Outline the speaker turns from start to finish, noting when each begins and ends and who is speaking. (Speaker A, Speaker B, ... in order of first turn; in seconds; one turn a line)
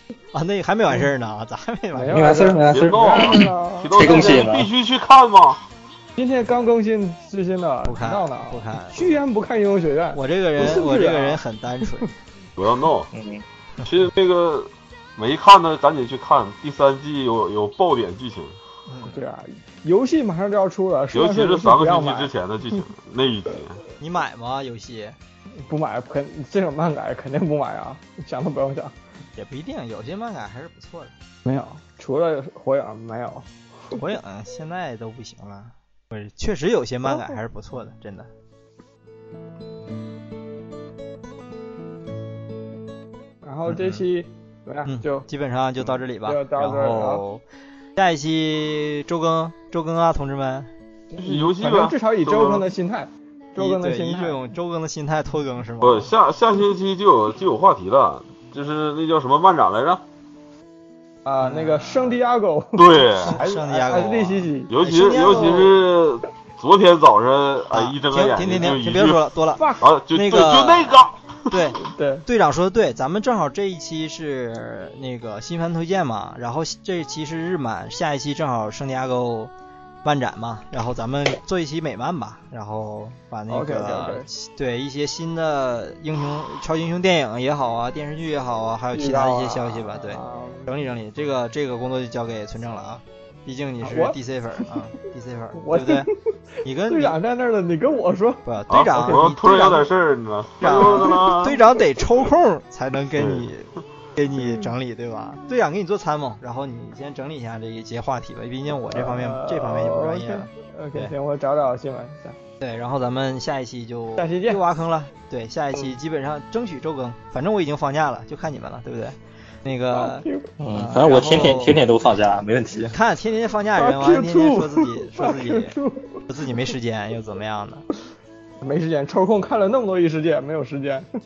Speaker A: 0.3-2.2
Speaker B: 1.9-4.4
Speaker C: 2.1-4.7
Speaker D: 2.7-5.6
Speaker B: 6.2-11.4
Speaker A: 7.8-9.1
Speaker A: 10.1-12.1
Speaker D: 12.6-13.1
Speaker C: 13.1-13.4
Speaker D: 13.8-18.6
Speaker A: 18.9-19.2
Speaker B: 19.1-22.4
Speaker D: 21.1-23.8
Speaker A: 24.0-25.2
Speaker B: 25.6-28.9
Speaker A: 29.4-31.1
Speaker B: 31.4-33.5
Speaker A: 34.0-38.3
Speaker B: 37.1-37.4
Speaker B: 43.4-45.3
Speaker A: 43.7-44.0
Speaker A: 44.9-47.4
Speaker B: 46.2-47.2
Speaker A: 48.0-50.7
Speaker B: 51.1-54.4
Speaker D: 51.2-52.7
Speaker A: 53.6-56.1
Speaker D: 55.8-60.0
Speaker B: 61.2-64.7
Speaker A: 61.4-62.2
Speaker D: 62.8-63.4
Speaker A: 63.2-65.8
Speaker D: 64.7-71.3
Speaker A: 67.7-79.5
Speaker B: 69.6-69.9
Speaker B: 71.8-72.2
Speaker A: 80.0-96.1
Speaker B: 83.5-84.3
Speaker B: 88.9-90.7
Speaker B: 93.8-94.2
Speaker B: 95.6-96.1
Speaker A: 96.6-97.2
Speaker B: 96.9-98.4
Speaker A: 98.5-99.9
Speaker D: 98.7-101.6
Speaker A: 100.6-111.1
Speaker D: 103.2-103.5
Speaker B: 108.9-112.4
Speaker A: 112.6-121.9
Speaker B: 114.2-114.6
Speaker B: 119.9-120.5
Speaker C: 120.6-123.0
Speaker A: 122.9-127.8
Speaker B: 123.8-126.1
Speaker B: 128.6-131.1